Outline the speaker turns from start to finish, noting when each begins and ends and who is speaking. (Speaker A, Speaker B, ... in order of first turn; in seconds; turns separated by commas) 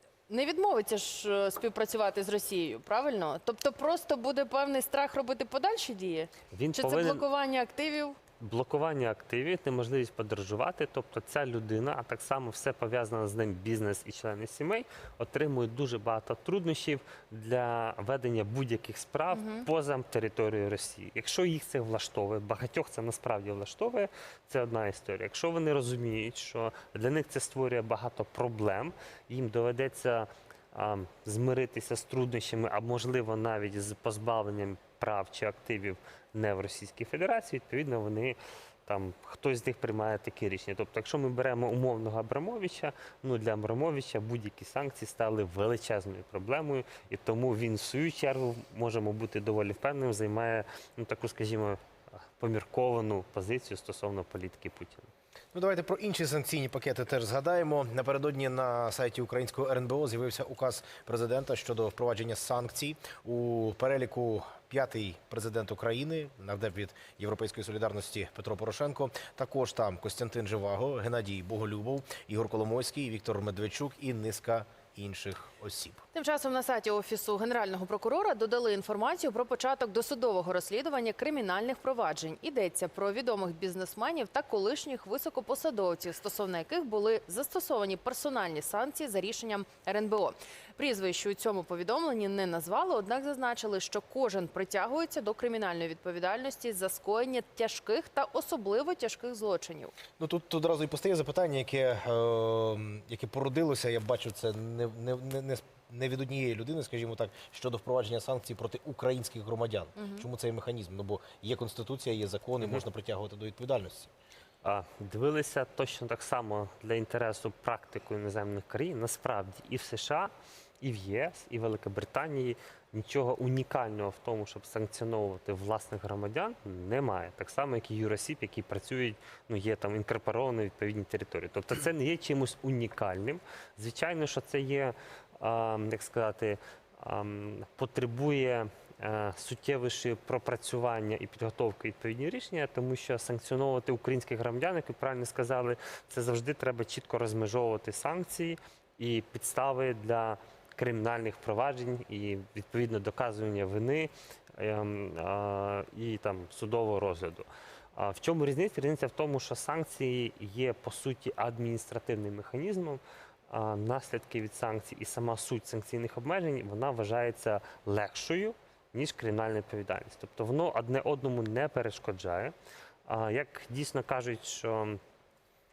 Speaker A: 0.3-8.2, Speaker B: 6.5-7.2, Speaker B: 8.4-55.1, Speaker A: 19.3-19.7, Speaker C: 55.5-76.0, Speaker A: 76.1-99.9, Speaker C: 100.2-114.1, Speaker A: 110.0-110.3, Speaker B: 114.6-172.5, Speaker B: 173.1-175.0